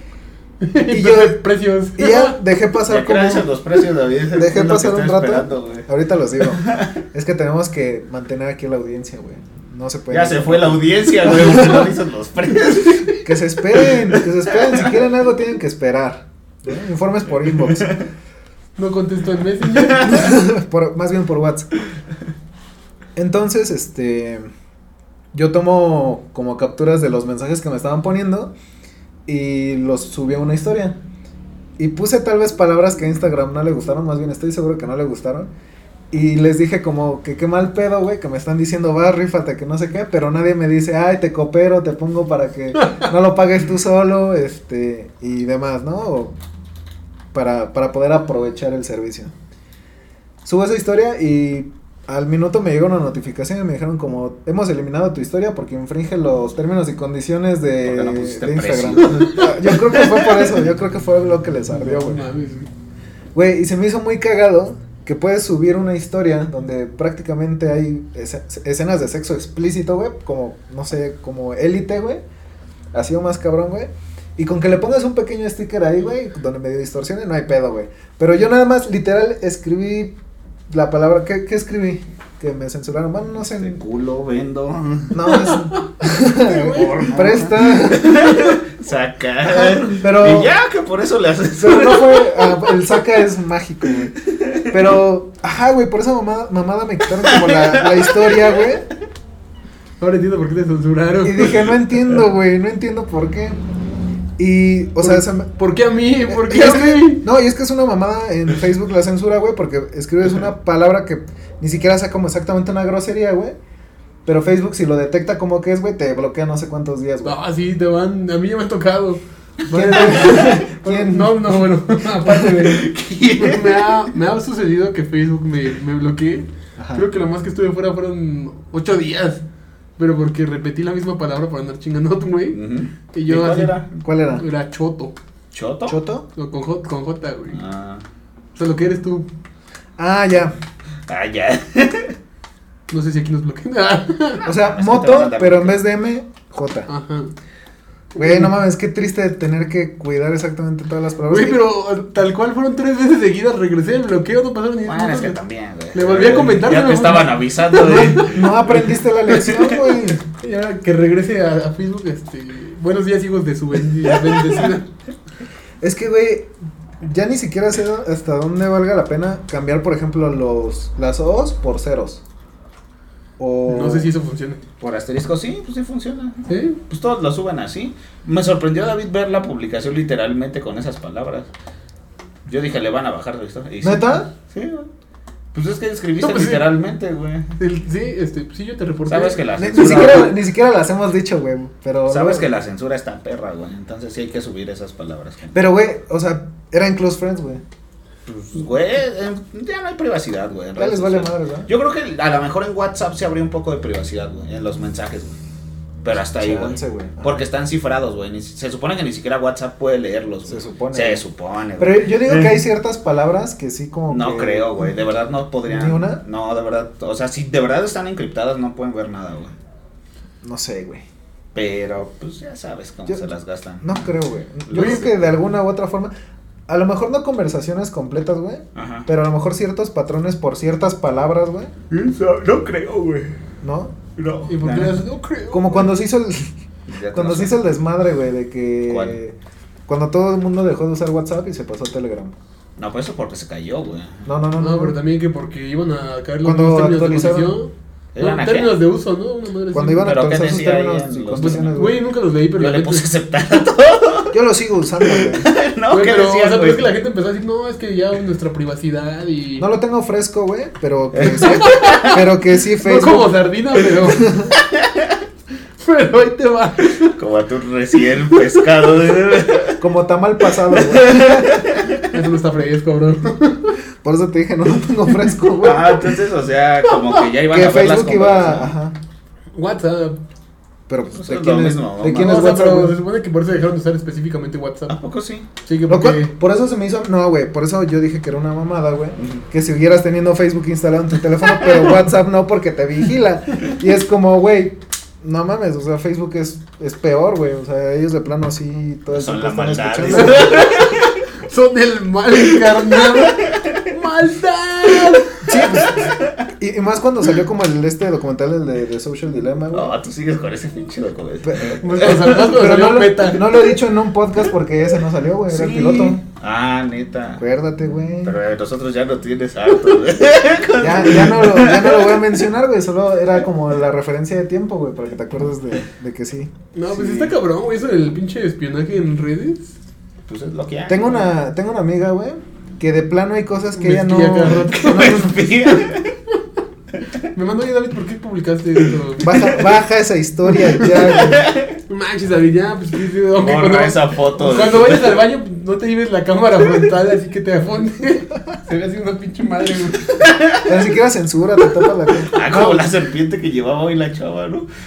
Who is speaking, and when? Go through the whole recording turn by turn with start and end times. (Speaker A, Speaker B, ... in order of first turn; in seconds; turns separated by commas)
Speaker A: 0.6-2.4, Speaker B: 0.8-1.4, Speaker B: 2.0-3.5, Speaker C: 2.9-5.9, Speaker B: 4.3-11.8, Speaker C: 6.5-6.9, Speaker C: 10.1-13.2, Speaker B: 13.2-18.0, Speaker C: 13.8-15.1, Speaker C: 17.5-18.0, Speaker A: 18.8-20.3, Speaker C: 19.8-20.2, Speaker B: 20.0-21.7, Speaker B: 23.1-24.5, Speaker B: 25.3-28.5, Speaker B: 29.3-31.0, Speaker B: 31.8-35.5, Speaker B: 36.1-46.3, Speaker A: 42.8-43.1, Speaker B: 47.3-49.3, Speaker B: 50.4-62.2, Speaker C: 57.8-60.0, Speaker A: 59.0-59.4, Speaker A: 61.7-62.7, Speaker B: 63.3-72.2, Speaker B: 72.9-80.2, Speaker B: 80.7-83.8, Speaker C: 83.5-85.2, Speaker B: 85.1-88.5, Speaker A: 85.3-87.1, Speaker C: 86.7-92.8, Speaker B: 89.4-90.5, Speaker B: 91.6-94.2, Speaker C: 94.3-94.7, Speaker B: 94.7-98.9, Speaker C: 97.2-98.4, Speaker A: 100.0-101.6, Speaker B: 101.2-103.6, Speaker B: 104.4-105.5, Speaker A: 105.0-107.2, Speaker B: 106.3-113.5, Speaker B: 114.2-117.4, Speaker A: 117.2-129.4, Speaker B: 119.7-121.6, Speaker B: 122.2-122.6, Speaker C: 122.4-124.0, Speaker B: 126.8-127.0, Speaker A: 130.0-132.6, Speaker C: 132.5-133.9, Speaker A: 133.1-133.8, Speaker B: 134.0-134.4, Speaker A: 134.3-135.1, Speaker C: 135.5-136.0, Speaker B: 135.9-136.2, Speaker A: 136.3-137.6, Speaker C: 137.5-138.0, Speaker A: 138.6-139.3, Speaker B: 140.0-140.6, Speaker C: 141.1-142.2, Speaker A: 142.9-144.4, Speaker C: 144.4-145.8, Speaker B: 144.4-146.9, Speaker A: 146.9-147.3, Speaker A: 148.1-148.5, Speaker B: 148.2-151.6, Speaker A: 151.3-155.4, Speaker C: 154.8-159.8, Speaker A: 155.9-158.3, Speaker B: 157.8-160.2, Speaker A: 160.2-164.9, Speaker B: 165.8-172.2, Speaker B: 173.4-174.1, Speaker A: 173.7-174.6, Speaker C: 174.8-181.5, Speaker A: 176.4-176.8, Speaker C: 182.4-184.9, Speaker B: 183.8-184.3, Speaker C: 185.5-187.5, Speaker A: 186.2-186.7, Speaker A: 187.6-190.3, Speaker C: 189.1-190.4, Speaker B: 189.6-192.5, Speaker C: 192.1-195.7, Speaker B: 195.5-197.6, Speaker C: 198.3-205.4, Speaker B: 200.8-201.7, Speaker C: 206.0-212.6, Speaker B: 206.4-207.4, Speaker B: 210.5-211.2, Speaker B: 211.8-214.8, Speaker C: 214.1-219.5, Speaker B: 215.7-216.2, Speaker B: 220.4-221.1, Speaker C: 221.5-224.1, Speaker B: 223.8-226.1, Speaker C: 224.7-225.1, Speaker A: 224.8-225.0, Speaker B: 226.7-231.7, Speaker C: 228.7-229.1, Speaker C: 231.9-233.4, Speaker B: 233.6-234.0, Speaker C: 234.2-235.0, Speaker A: 234.4-236.0, Speaker B: 235.5-236.5, Speaker C: 236.9-237.6, Speaker B: 237.1-239.3, Speaker C: 238.9-239.2, Speaker B: 239.9-242.3, Speaker C: 242.8-244.3, Speaker B: 244.2-245.0, Speaker A: 244.6-250.2, Speaker B: 246.4-247.6, Speaker C: 248.1-248.8, Speaker B: 249.7-252.0, Speaker C: 250.0-251.8, Speaker A: 251.3-253.1, Speaker C: 252.6-254.3, Speaker B: 254.3-255.5, Speaker C: 255.0-256.9, Speaker A: 255.9-259.7, Speaker B: 259.6-263.3, Speaker C: 261.1-262.2, Speaker A: 261.6-262.1, Speaker A: 262.8-264.4, Speaker B: 264.0-264.5, Speaker C: 264.6-265.2, Speaker A: 265.8-267.1, Speaker C: 267.0-269.8, Speaker B: 269.8-271.6, Speaker C: 270.7-272.1, Speaker A: 272.1-273.8, Speaker B: 274.0-276.2, Speaker C: 275.6-278.7, Speaker B: 277.5-278.9, Speaker A: 279.5-280.2, Speaker B: 280.9-283.0, Speaker C: 281.1-282.6, Speaker A: 282.1-285.0, Speaker C: 284.9-285.5, Speaker A: 285.6-286.3, Speaker B: 285.9-300.6, Speaker C: 289.2-289.4, Speaker C: 299.1-301.2, Speaker A: 300.1-305.4, Speaker C: 302.4-303.8, Speaker B: 305.4-309.9, Speaker C: 305.8-306.4, Speaker C: 309.7-312.5, Speaker B: 311.4-316.2, Speaker A: 311.8-313.7, Speaker C: 315.5-317.4, Speaker B: 317.4-318.3, Speaker C: 318.2-322.3, Speaker B: 320.8-326.5, Speaker A: 326.7-329.7, Speaker C: 326.9-327.3, Speaker C: 330.3-331.3, Speaker B: 330.9-335.4, Speaker A: 333.8-335.9, Speaker C: 334.7-336.1, Speaker A: 337.3-339.3, Speaker B: 339.2-341.5, Speaker C: 339.2-339.6, Speaker A: 340.7-341.1, Speaker C: 341.0-341.7, Speaker A: 341.9-350.2, Speaker C: 343.3-345.2, Speaker C: 350.2-350.8, Speaker B: 350.6-352.8, Speaker C: 352.2-354.7